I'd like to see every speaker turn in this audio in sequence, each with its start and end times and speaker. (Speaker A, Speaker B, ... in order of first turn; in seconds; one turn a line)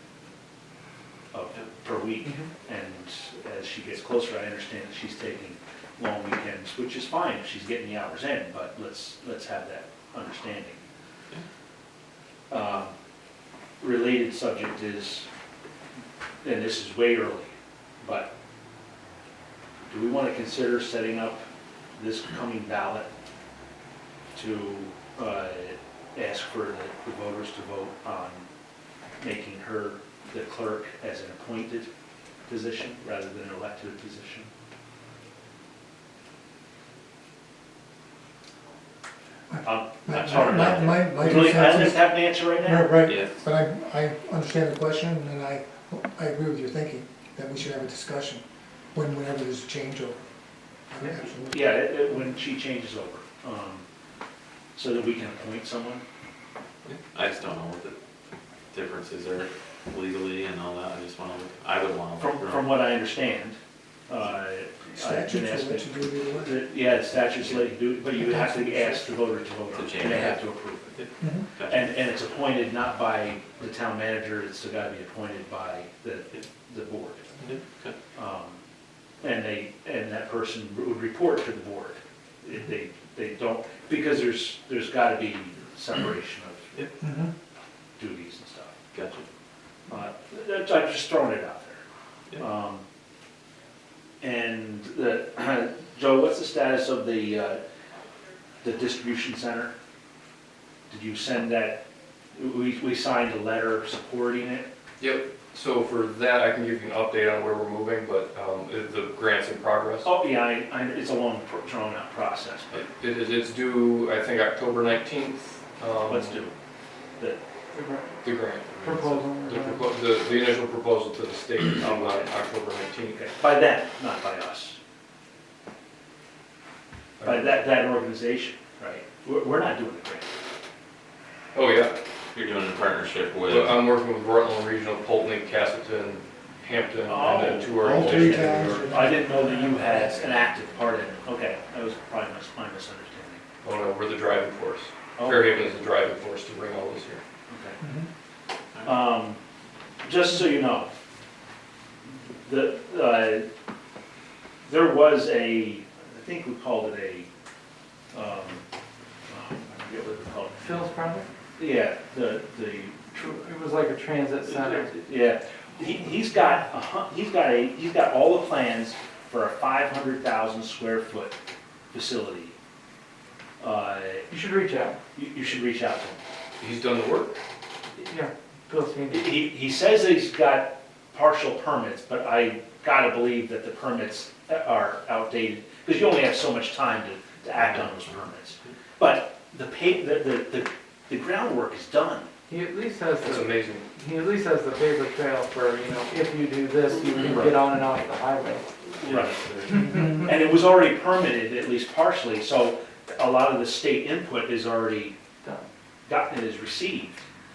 Speaker A: 1.3-10.8
Speaker B: 2.2-2.5
Speaker A: 12.5-12.9
Speaker A: 13.8-15.3
Speaker A: 16.4-18.3
Speaker A: 19.9-21.4
Speaker A: 21.9-23.1
Speaker A: 24.4-28.5
Speaker A: 29.2-31.9
Speaker A: 32.5-34.5
Speaker C: 39.5-48.4
Speaker A: 39.6-42.9
Speaker D: 43.1-43.4
Speaker C: 48.9-50.2
Speaker C: 50.9-51.8
Speaker A: 51.5-53.9
Speaker A: 54.8-56.0
Speaker D: 56.9-58.0
Speaker D: 58.7-62.7
Speaker A: 62.2-63.6
Speaker A: 64.1-71.0
Speaker C: 64.9-66.6
Speaker C: 68.2-69.0
Speaker D: 69.7-71.9
Speaker C: 71.2-71.4
Speaker A: 71.7-77.3
Speaker D: 77.4-78.0
Speaker A: 78.2-78.6
Speaker A: 79.2-87.0
Speaker C: 87.0-87.3
Speaker A: 88.0-88.7
Speaker D: 88.9-89.2
Speaker A: 89.9-91.8
Speaker A: 92.4-92.8
Speaker A: 94.2-97.6
Speaker A: 98.6-99.7
Speaker A: 100.9-101.8
Speaker A: 102.3-104.7
Speaker E: 105.0-110.1
Speaker A: 110.0-112.9
Speaker E: 112.7-116.4
Speaker A: 116.1-116.5
Speaker B: 117.7-118.2
Speaker E: 118.2-123.3
Speaker B: 118.8-119.8
Speaker A: 121.8-122.3
Speaker A: 123.2-124.8
Speaker E: 127.2-127.7
Speaker A: 127.2-130.3
Speaker E: 131.5-131.9
Speaker D: 132.3-133.8
Speaker E: 133.5-138.9
Speaker A: 137.1-143.4
Speaker C: 137.8-140.1
Speaker E: 143.6-147.2
Speaker A: 145.2-145.6
Speaker A: 147.5-147.8
Speaker C: 147.8-148.1
Speaker A: 148.8-149.4
Speaker A: 150.0-150.9
Speaker A: 152.4-153.5
Speaker A: 154.6-157.3
Speaker A: 158.1-158.6
Speaker A: 159.3-160.7
Speaker B: 160.6-161.3
Speaker A: 161.6-163.2
Speaker B: 163.1-165.0
Speaker A: 164.5-171.4
Speaker A: 171.9-172.6
Speaker A: 173.6-174.3
Speaker B: 174.3-175.0
Speaker A: 175.2-176.2
Speaker E: 176.6-177.4
Speaker B: 178.0-179.4
Speaker A: 179.1-192.3
Speaker B: 192.5-198.7
Speaker E: 193.2-193.9
Speaker D: 197.1-197.5
Speaker D: 198.9-199.9
Speaker A: 199.0-199.4
Speaker B: 199.7-200.2
Speaker A: 199.9-205.2
Speaker A: 206.1-207.3